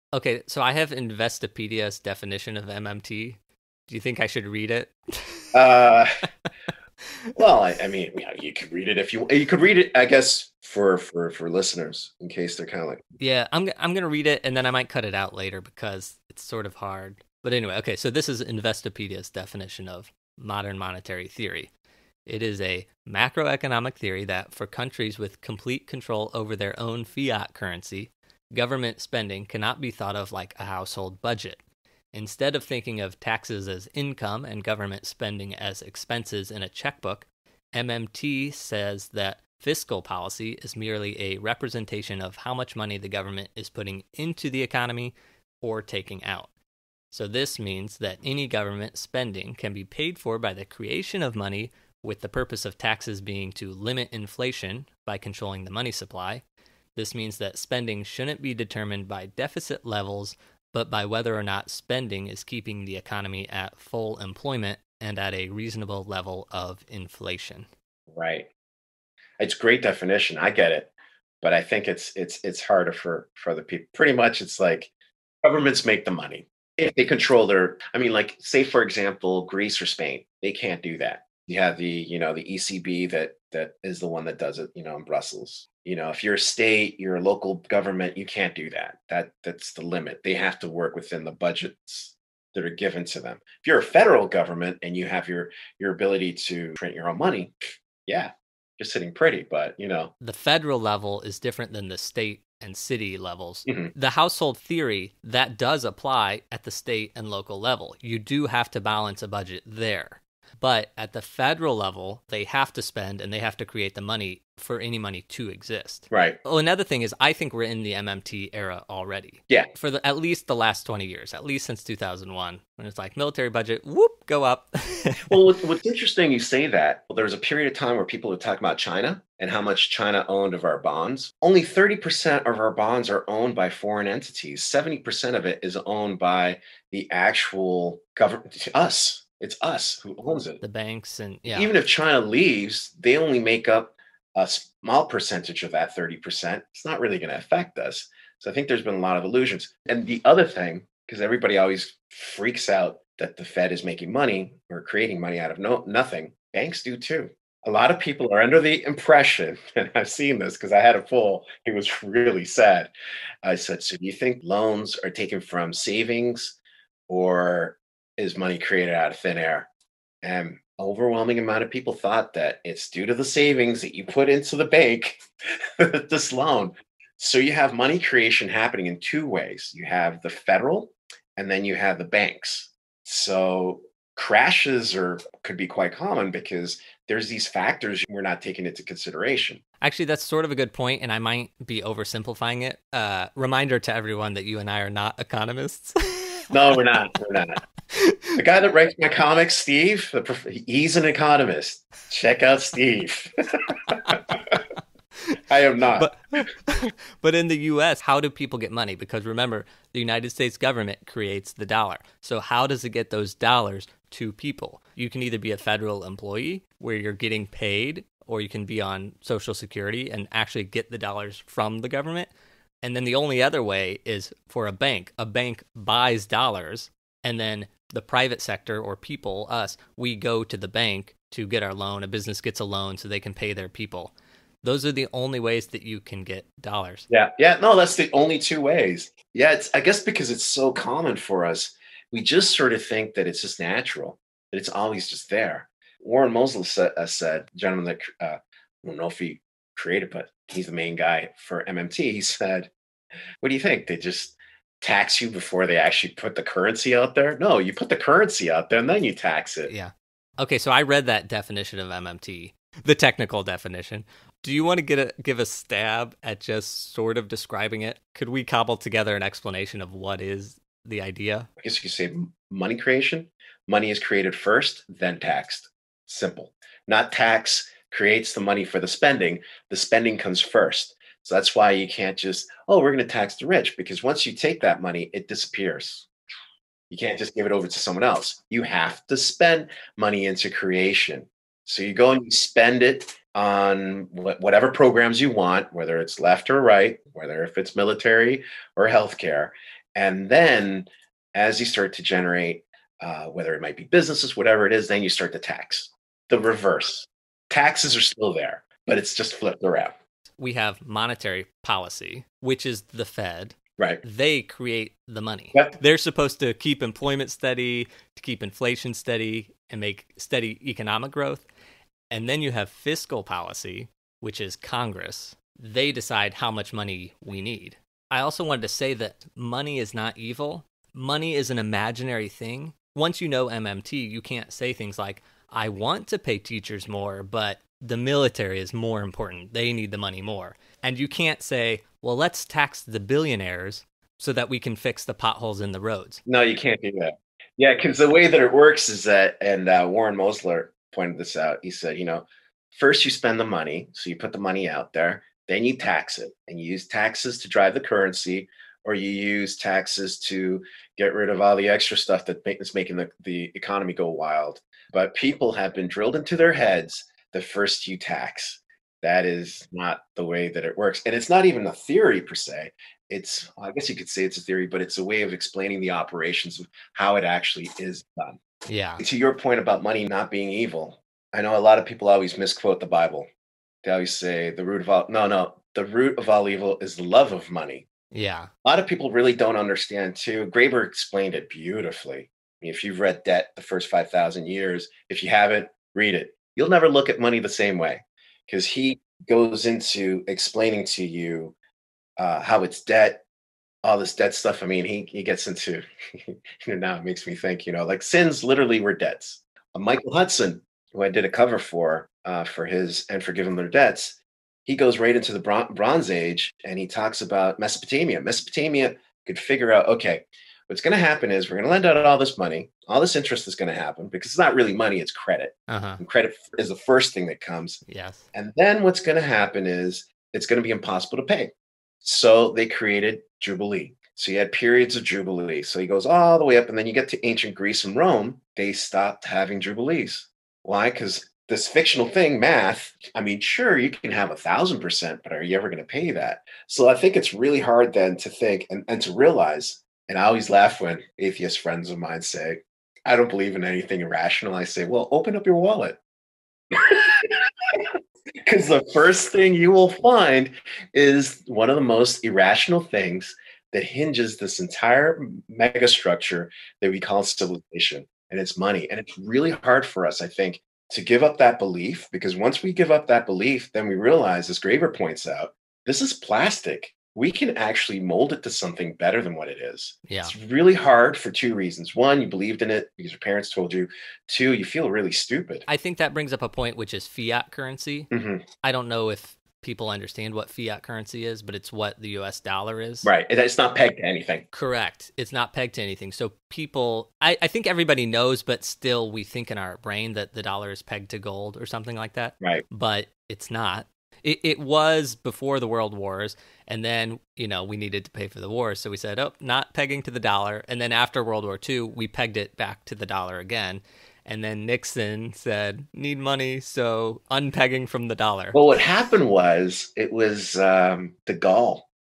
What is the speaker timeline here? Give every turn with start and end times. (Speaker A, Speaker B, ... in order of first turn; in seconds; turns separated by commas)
Speaker A: 0.1-5.5, Speaker B: 5.5-6.2, Speaker B: 7.3-13.0, Speaker A: 13.2-21.7, Speaker A: 22.2-31.6, Speaker A: 32.1-46.5, Speaker A: 47.1-56.4, Speaker A: 57.0-67.7, Speaker B: 68.1-68.5, Speaker B: 69.4-70.9, Speaker B: 71.4-74.9, Speaker B: 75.4-100.1, Speaker A: 100.2-125.4, Speaker B: 103.7-103.9, Speaker B: 116.1-116.4, Speaker B: 125.3-140.6, Speaker A: 140.6-141.7, Speaker B: 141.5-162.9, Speaker B: 163.4-166.6, Speaker B: 167.1-169.7, Speaker B: 170.2-189.6, Speaker A: 189.8-196.5, Speaker B: 196.5-197.6, Speaker A: 197.9-198.4, Speaker B: 198.3-204.6, Speaker B: 205.5-206.1, Speaker A: 205.9-222.3, Speaker A: 222.8-237.1, Speaker B: 237.1-252.7, Speaker B: 253.4-259.7, Speaker A: 259.7-271.5, Speaker B: 271.6-286.1, Speaker B: 286.9-309.9, Speaker A: 310.4-321.4, Speaker A: 322.1-346.2, Speaker B: 346.2-378.4, Speaker A: 378.6-379.0, Speaker B: 379.0-383.3, Speaker B: 383.8-387.9, Speaker A: 388.1-388.5, Speaker B: 388.6-401.5, Speaker B: 402.2-403.2, Speaker B: 403.8-427.8, Speaker A: 425.7-426.0, Speaker A: 427.9-428.2, Speaker B: 428.3-456.0, Speaker B: 456.7-485.6, Speaker A: 480.1-480.3, Speaker A: 485.7-488.1, Speaker B: 488.1-488.4, Speaker A: 488.6-493.1, Speaker B: 493.0-494.4, Speaker A: 494.5-518.6, Speaker B: 518.5-521.8